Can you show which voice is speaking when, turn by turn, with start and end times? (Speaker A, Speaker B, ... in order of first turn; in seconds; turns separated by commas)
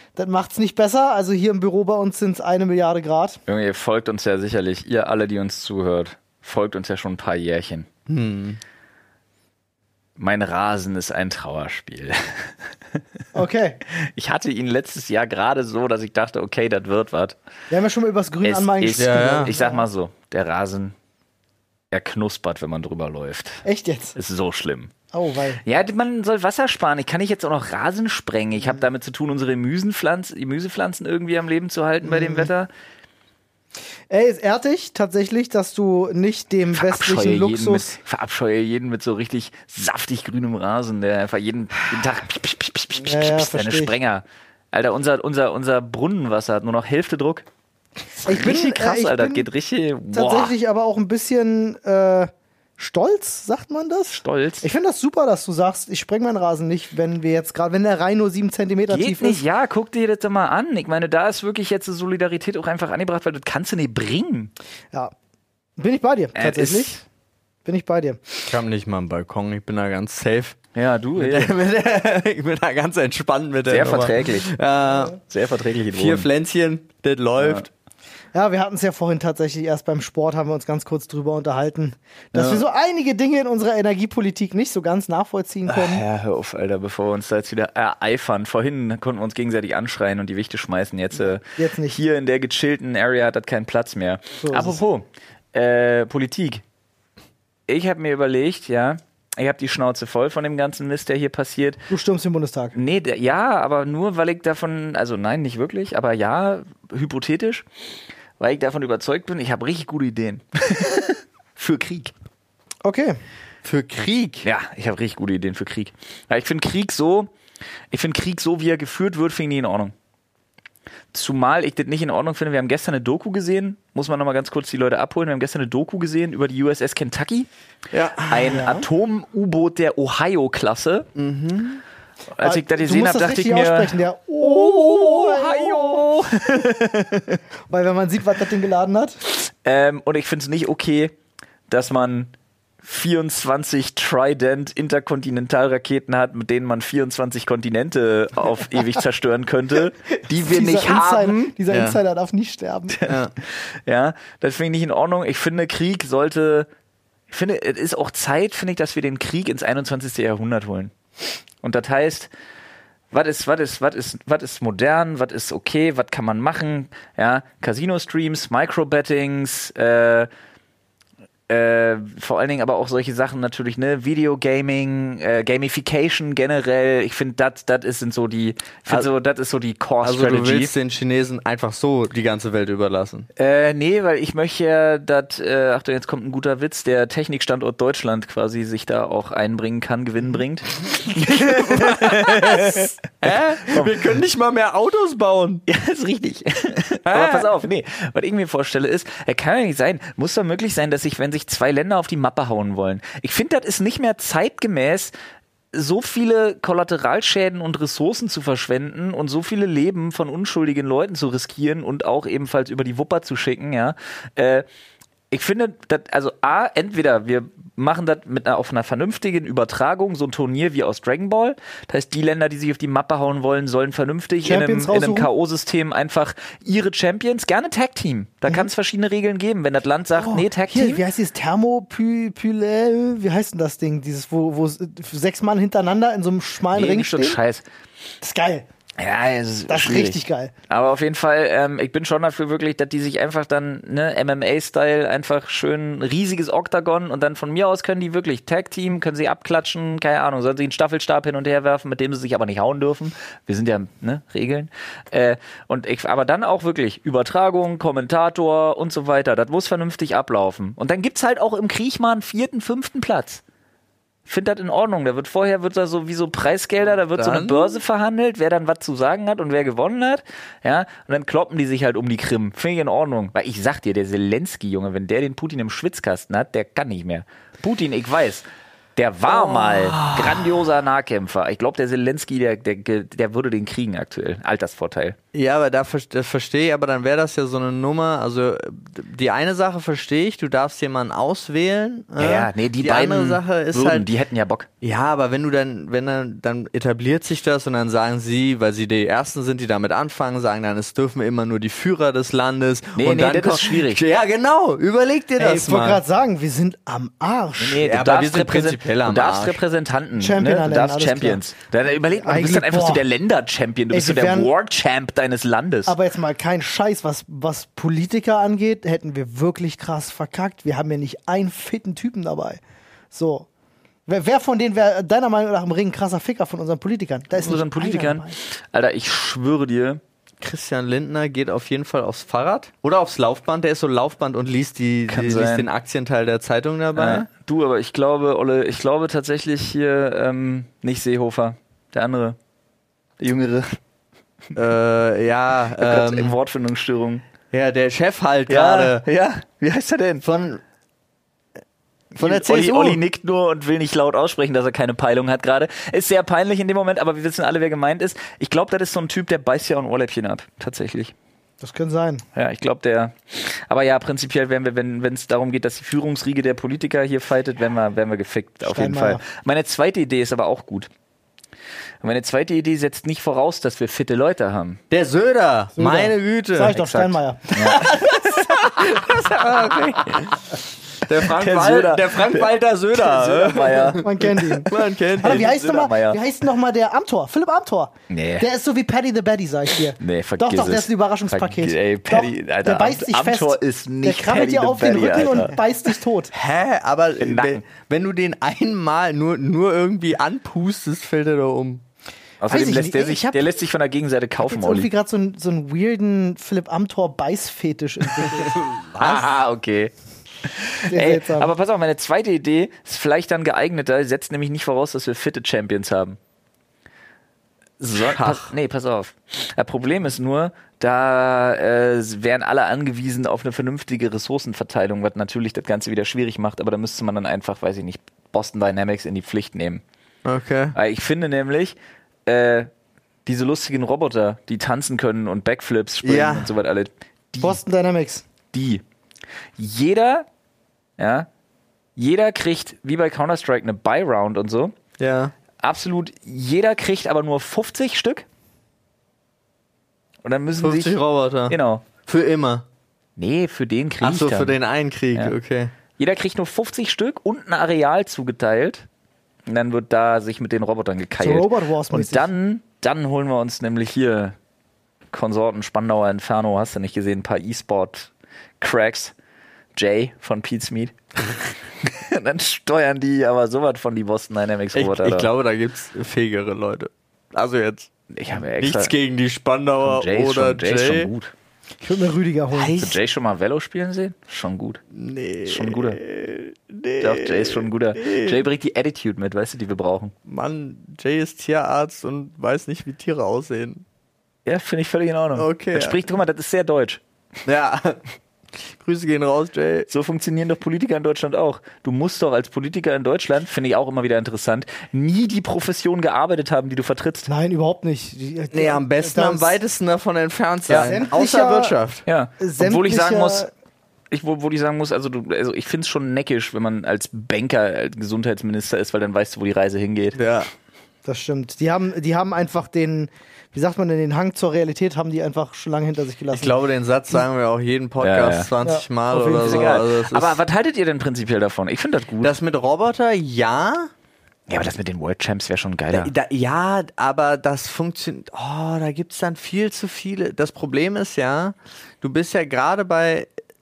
Speaker A: 0.2-3.4, Speaker B: 3.5-7.9, Speaker C: 8.1-8.6, Speaker B: 10.2-12.5, Speaker A: 13.3-13.8, Speaker B: 14.0-17.4, Speaker A: 17.7-19.8, Speaker B: 18.4-20.9, Speaker C: 19.0-19.5, Speaker B: 21.9-23.6, Speaker A: 23.6-24.2, Speaker B: 24.2-24.9, Speaker A: 25.1-25.6, Speaker B: 25.6-32.7, Speaker A: 32.0-32.5, Speaker A: 34.1-37.9, Speaker B: 36.7-47.5, Speaker A: 43.0-43.9, Speaker B: 48.2-50.5, Speaker A: 48.2-49.5, Speaker A: 50.1-59.4, Speaker B: 54.1-54.7, Speaker B: 58.9-64.5, Speaker A: 65.8-67.0, Speaker B: 66.4-67.0, Speaker A: 67.7-68.5, Speaker C: 68.5-70.6, Speaker B: 70.8-71.5, Speaker C: 71.2-75.2, Speaker B: 73.7-76.3, Speaker C: 75.9-77.7, Speaker B: 77.4-77.7, Speaker A: 78.3-86.0, Speaker C: 82.3-82.7, Speaker B: 85.7-96.6, Speaker A: 91.2-92.0, Speaker A: 94.4-94.8, Speaker B: 97.7-101.9, Speaker A: 101.9-102.8, Speaker B: 102.8-107.7, Speaker B: 108.4-112.1, Speaker A: 112.8-113.2, Speaker C: 113.6-114.5, Speaker B: 114.4-117.3, Speaker B: 117.9-119.9, Speaker B: 121.1-127.5, Speaker C: 127.9-128.7, Speaker B: 128.3-131.1, Speaker A: 128.6-128.8, Speaker C: 131.2-131.8, Speaker B: 132.4-137.0, Speaker A: 132.4-139.2, Speaker B: 139.3-141.1, Speaker B: 141.7-151.5, Speaker A: 150.3-153.1, Speaker C: 151.7-152.0, Speaker B: 153.0-156.7, Speaker C: 153.1-153.3, Speaker B: 157.3-160.9, Speaker B: 161.6-162.3, Speaker B: 163.1-170.3, Speaker B: 171.5-180.7, Speaker C: 180.0-183.3, Speaker B: 183.4-192.9, Speaker C: 191.2-195.7, Speaker B: 193.7-194.1, Speaker B: 195.7-205.1, Speaker C: 197.1-197.5, Speaker B: 205.7-214.7, Speaker B: 215.3-231.0, Speaker A: 224.4-225.3, Speaker A: 230.2-237.4, Speaker B: 236.7-237.6, Speaker A: 238.2-238.7, Speaker B: 239.0-263.4, Speaker A: 239.7-240.5, Speaker B: 264.3-278.4, Speaker C: 267.1-267.8, Speaker B: 279.0-285.2, Speaker C: 279.3-280.7, Speaker C: 285.3-294.1, Speaker B: 292.2-294.7, Speaker C: 294.8-306.0, Speaker B: 303.0-304.0, Speaker A: 305.4-307.9, Speaker B: 307.6-316.0, Speaker C: 307.8-309.6, Speaker A: 310.2-311.4, Speaker A: 312.2-313.0, Speaker A: 313.9-314.5, Speaker A: 315.9-322.6, Speaker A: 323.1-323.5, Speaker A: 324.1-328.4, Speaker B: 327.4-330.0, Speaker C: 330.4-337.3, Speaker B: 335.1-335.7, Speaker B: 336.9-342.4, Speaker B: 343.2-343.8, Speaker C: 344.6-346.4, Speaker B: 345.8-347.2, Speaker C: 347.5-349.1, Speaker B: 348.5-350.2, Speaker C: 350.2-350.6, Speaker C: 352.1-353.0, Speaker B: 352.2-361.1, Speaker A: 361.6-362.2, Speaker B: 362.4-370.9, Speaker A: 368.6-369.2, Speaker B: 372.0-374.8, Speaker C: 374.9-376.8, Speaker A: 375.8-377.8, Speaker B: 376.8-380.4, Speaker C: 377.6-380.4, Speaker C: 381.0-385.5, Speaker B: 381.1-384.1, Speaker A: 384.0-396.3, Speaker B: 385.2-386.2, Speaker B: 388.1-388.5, Speaker B: 390.0-395.6, Speaker C: 396.3-401.8, Speaker B: 397.2-397.6, Speaker B: 402.4-404.9, Speaker A: 402.5-403.4, Speaker A: 404.4-408.6, Speaker C: 408.3-409.2, Speaker B: 409.0-409.9, Speaker B: 410.4-416.2, Speaker A: 410.8-411.5, Speaker B: 417.8-429.8, Speaker C: 418.0-418.5, Speaker C: 430.2-430.8, Speaker B: 430.8-432.7, Speaker B: 433.3-437.6, Speaker C: 436.0-436.6, Speaker A: 437.4-438.2, Speaker B: 438.5-438.8, Speaker B: 439.6-440.3, Speaker B: 441.0-441.3, Speaker B: 442.0-444.8, Speaker C: 445.0-445.3, Speaker B: 445.6-448.2, Speaker B: 450.2-451.9, Speaker C: 450.6-452.6, Speaker B: 453.2-454.6, Speaker C: 454.0-455.7, Speaker B: 456.0-458.9, Speaker B: 459.5-464.4, Speaker A: 461.2-462.3, Speaker B: 465.1-469.1, Speaker B: 469.8-475.3, Speaker C: 474.7-477.9, Speaker B: 478.1-478.9, Speaker C: 478.6-481.1, Speaker B: 479.8-481.3, Speaker A: 481.8-483.0, Speaker B: 482.5-484.8, Speaker C: 484.9-488.4, Speaker B: 485.5-486.0, Speaker B: 487.0-490.1, Speaker C: 490.3-493.9, Speaker B: 494.5-497.0, Speaker C: 495.4-496.0, Speaker C: 497.5-498.0, Speaker C: 498.6-499.9, Speaker B: 499.9-507.3, Speaker A: 507.3-509.6, Speaker C: 508.5-512.0, Speaker B: 510.7-510.9, Speaker A: 510.8-511.8, Speaker B: 512.1-513.5, Speaker A: 512.4-513.5, Speaker B: 514.1-520.2, Speaker C: 520.1-520.5, Speaker A: 521.0-526.5, Speaker C: 526.3-530.4, Speaker B: 528.0-528.5, Speaker A: 528.6-529.8, Speaker B: 529.3-532.4, Speaker C: 532.2-533.9, Speaker B: 534.5-536.1, Speaker C: 535.9-543.3